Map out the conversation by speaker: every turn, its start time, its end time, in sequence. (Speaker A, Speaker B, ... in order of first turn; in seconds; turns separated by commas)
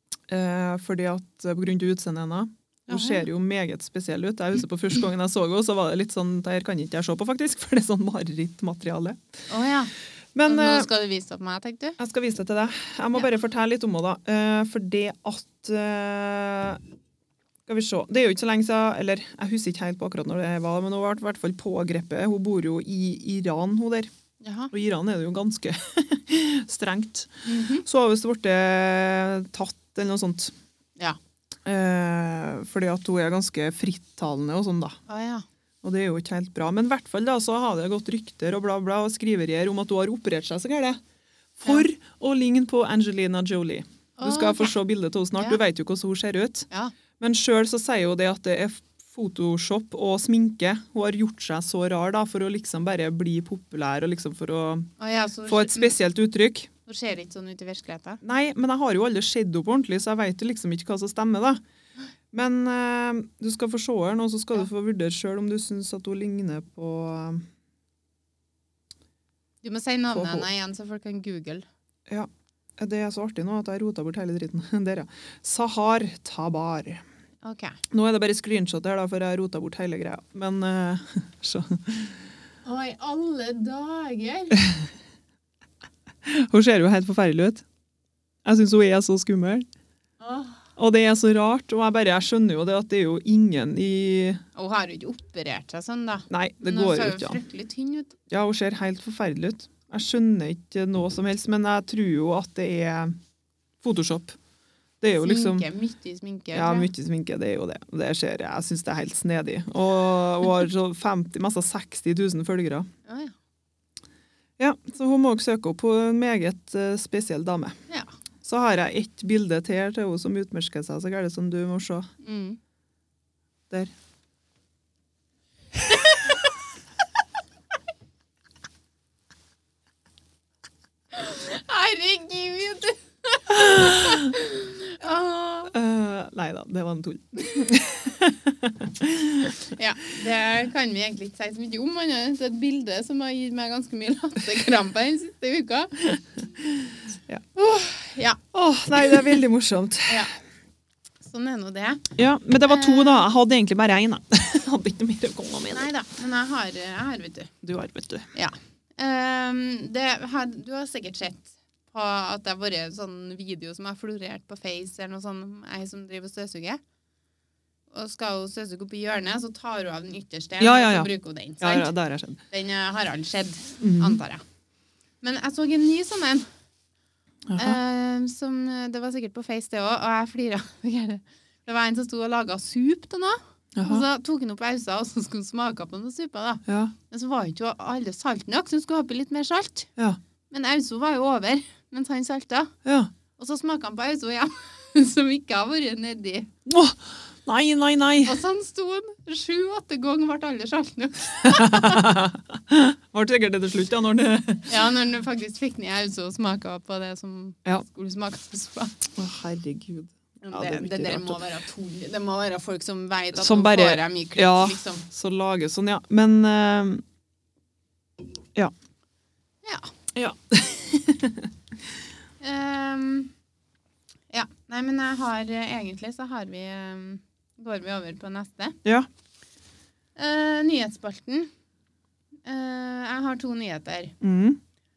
Speaker A: 0.3-9.2, Speaker B: 2.9-3.3, Speaker B: 9.5-9.9, Speaker A: 10.3-10.9, Speaker B: 10.5-12.0, Speaker A: 12.0-16.8, Speaker A: 17.7-24.1, Speaker B: 24.4-24.7, Speaker A: 24.7-30.5, Speaker B: 27.4-27.8, Speaker A: 31.6-35.0, Speaker B: 35.1-35.5, Speaker A: 35.8-41.0, Speaker A: 41.6-46.7, Speaker B: 44.2-44.8, Speaker A: 47.2-54.9, Speaker B: 55.0-56.0, Speaker A: 55.5-56.7, Speaker B: 56.9-58.2, Speaker A: 58.2-61.6, Speaker A: 62.3-67.5, Speaker B: 69.6-71.7, Speaker A: 70.1-70.5, Speaker A: 72.1-77.0, Speaker B: 77.4-77.8, Speaker A: 77.9-82.2, Speaker B: 82.7-84.6, Speaker A: 86.2-87.6, Speaker A: 88.5-89.7, Speaker B: 90.2-90.7, Speaker A: 90.8-94.4, Speaker B: 94.6-98.2, Speaker A: 96.3-97.4, Speaker A: 98.3-103.2, Speaker A: 103.8-104.4, Speaker A: 105.0-105.7, Speaker B: 105.1-106.9, Speaker A: 106.5-112.9, Speaker B: 113.1-113.3, Speaker A: 114.6-117.8, Speaker A: 118.4-122.1, Speaker B: 122.2-122.6, Speaker B: 131.1-135.7, Speaker A: 133.7-134.2, Speaker A: 135.7-139.6, Speaker B: 139.7-146.1, Speaker A: 146.6-147.4, Speaker B: 147.6-148.4, Speaker A: 148.5-150.3, Speaker B: 150.1-150.4, Speaker B: 151.2-152.1, Speaker A: 152.2-155.9, Speaker B: 152.7-153.2, Speaker B: 155.7-157.5, Speaker A: 157.6-158.3, Speaker B: 158.3-166.8, Speaker B: 167.9-171.9, Speaker A: 170.6-172.4, Speaker B: 172.5-174.4, Speaker A: 173.8-174.2, Speaker B: 175.2-176.5, Speaker A: 177.5-177.8, Speaker B: 177.6-189.9, Speaker A: 183.8-184.1, Speaker A: 186.7-186.9, Speaker B: 190.5-192.8, Speaker A: 192.8-193.1, Speaker B: 193.4-196.5, Speaker A: 196.7-198.4, Speaker B: 198.2-202.1, Speaker A: 201.4-204.8, Speaker B: 204.7-209.1, Speaker A: 209.2-211.4, Speaker B: 210.4-215.1, Speaker A: 213.3-217.0, Speaker B: 219.6-219.9, Speaker A: 220.2-221.5, Speaker B: 222.4-223.3, Speaker B: 224.3-228.8, Speaker B: 230.2-231.5, Speaker B: 232.5-234.2, Speaker A: 234.2-234.6